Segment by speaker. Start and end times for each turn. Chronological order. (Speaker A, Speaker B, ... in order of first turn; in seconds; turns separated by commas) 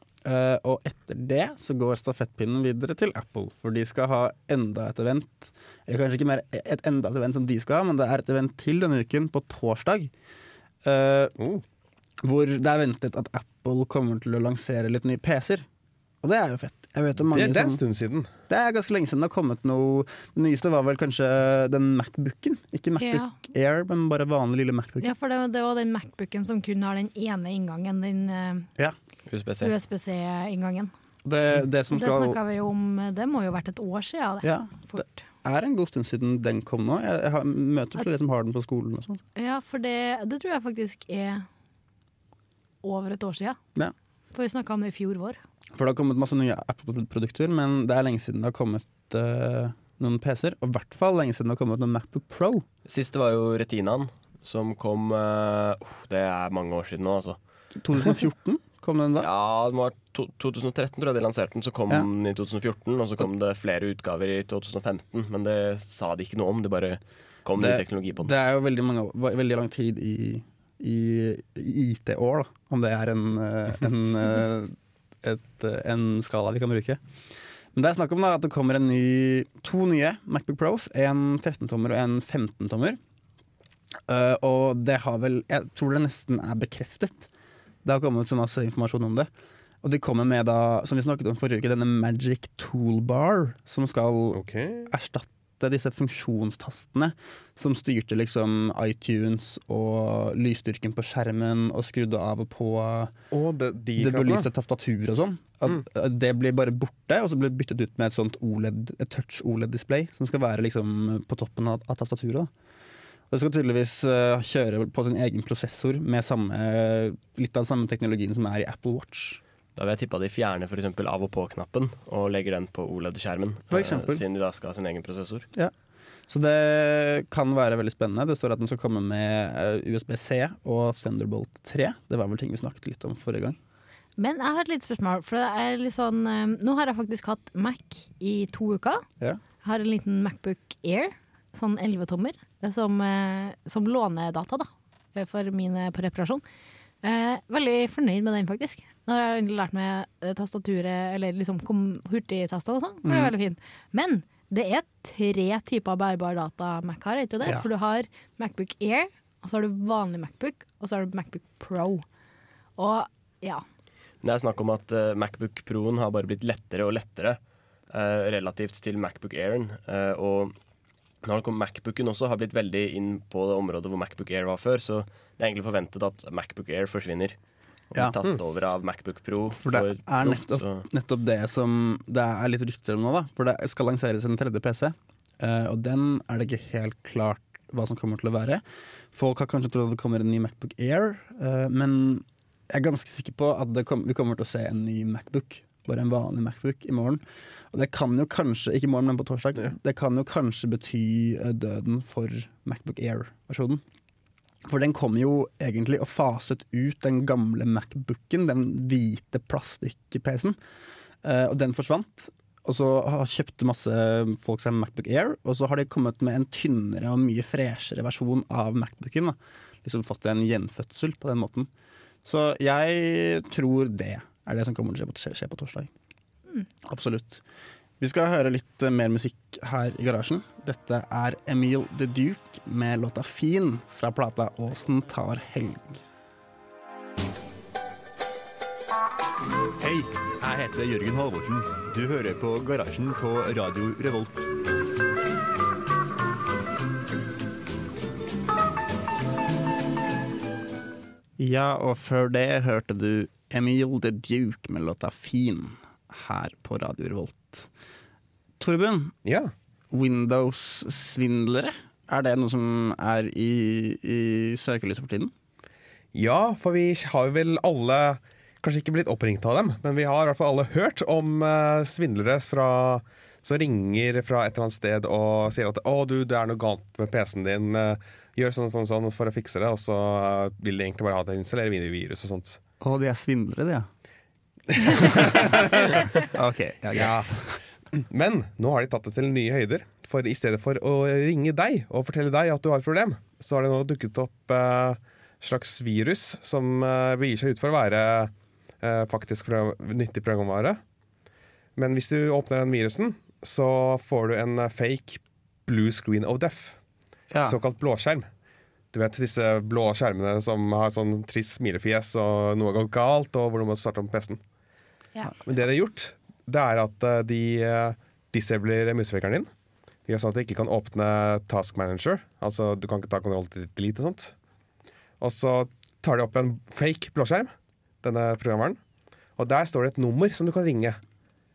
Speaker A: 0.2-10.1, Speaker A: 10.8-11.3, Speaker B: 11.4-11.6, Speaker A: 12.2-15.7, Speaker A: 16.2-17.8, Speaker B: 17.3-18.3, Speaker A: 18.5-25.1, Speaker C: 23.0-23.4, Speaker C: 25.0-28.7, Speaker D: 29.3-29.7, Speaker C: 29.6-30.9, Speaker A: 31.2-32.4, Speaker C: 31.9-35.1, Speaker A: 34.4-39.2, Speaker C: 39.4-41.5, Speaker C: 42.8-43.6, Speaker C: 44.3-45.4, Speaker A: 45.8-52.7, Speaker D: 52.9-57.4, Speaker A: 57.8-59.3, Speaker D: 59.2-68.3, Speaker A: 67.6-77.0, Speaker A: 77.7-83.0, Speaker A: 84.1-87.3, Speaker A: 87.8-89.3, Speaker A: 89.8-103.1, Speaker B: 94.3-94.9, Speaker B: 103.3-104.5, Speaker A: 104.0-112.5, Speaker A: 113.3-119.4, Speaker D: 119.8-125.5, Speaker A: 123.7-124.2, Speaker A: 126.3-133.6, Speaker C: 134.2-139.0, Speaker C: 139.6-146.4, Speaker C: 147.0-162.1, Speaker A: 153.0-153.3, Speaker C: 162.8-163.6, Speaker D: 164.2-167.4, Speaker D: 167.9-170.6, Speaker D: 171.2-177.4, Speaker D: 177.9-180.9, Speaker A: 179.6-188.6, Speaker A: 189.1-203.8, Speaker A: 204.7-210.6, Speaker A: 211.2-221.7, Speaker A: 222.2-225.9, Speaker A: 226.9-227.4, Speaker A: 228.0-236.0, Speaker E: 239.8-244.4, Speaker A: 251.4-257.7, Speaker A: 258.6-259.1, Speaker B: 259.2-259.5, Speaker A: 259.9-265.3, Speaker B: 266.1-282.6, Speaker A: 282.8-283.9, Speaker B: 284.8-286.0, Speaker A: 285.0-285.7, Speaker A: 286.3-287.6, Speaker B: 286.9-287.3, Speaker B: 287.9-300.8, Speaker B: 301.8-306.8, Speaker A: 307.3-307.6, Speaker B: 307.4-308.3, Speaker B: 308.9-314.4, Speaker B: 315.4-319.5, Speaker B: 320.1-324.3, Speaker B: 325.2-328.8, Speaker B: 329.4-331.0